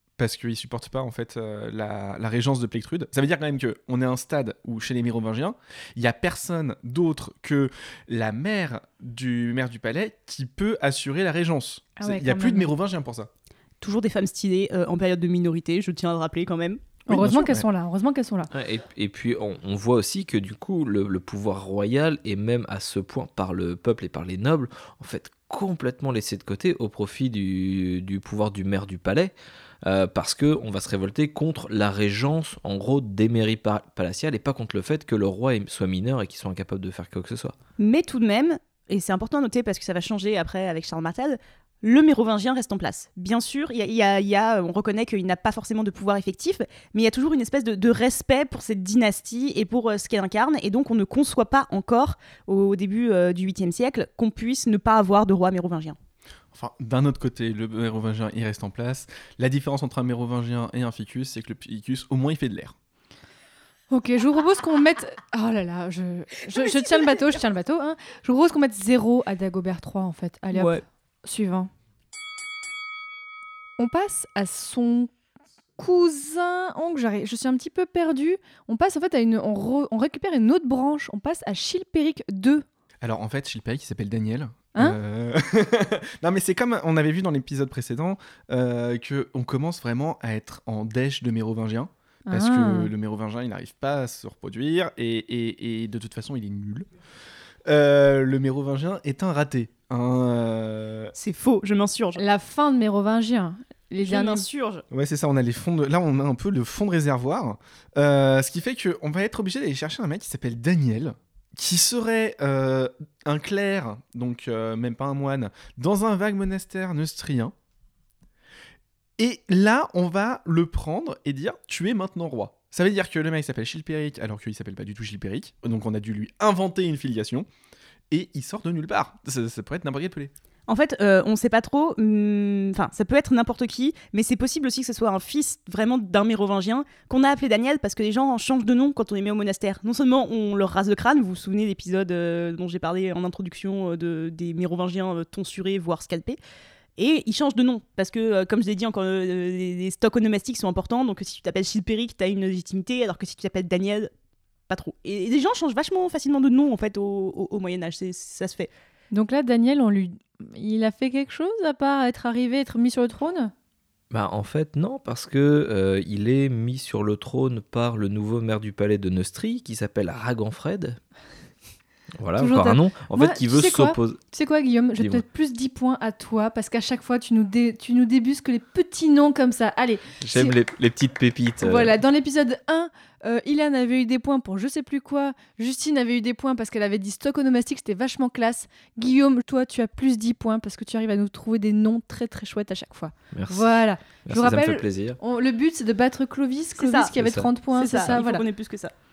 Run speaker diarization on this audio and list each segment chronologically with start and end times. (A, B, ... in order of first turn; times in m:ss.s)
0:00.2-0:13.3 A
0:12.0-0:12.7 B
0:13.8-0:16.8 C
0:17.1-0:18.5 B
0:17.1-0:17.6 A
0:18.5-0:37.5 D
0:37.8-0:56.0 C
0:56.5-1:02.7 A
1:03.9-1:11.7 B
1:06.6-1:07.2 C
1:10.5-1:10.8 C
1:13.8-1:15.1 B
1:15.8-1:22.6 B
1:23.0-1:36.9 A
1:32.3-1:32.9 B
1:37.6-1:41.1 A
1:41.2-1:42.2 C
1:42.2-1:44.4 B
1:44.0-1:44.8 C
1:44.9-1:57.5 A
1:59.2-2:07.5 A
2:08.1-2:10.3 A
2:10.7-2:26.4 C
2:27.0-2:34.1 C
2:34.7-2:38.7 C
2:39.1-2:43.5 B
2:44.1-2:51.0 D
2:52.2-2:54.2 D
2:52.4-3:00.5 B
2:55.0-2:55.2 D
3:00.2-3:01.9 D
3:01.6-3:18.4 B
3:13.3-3:15.2 D
3:16.8-3:17.1 C
3:17.2-3:18.2 D
3:17.7-3:18.9 C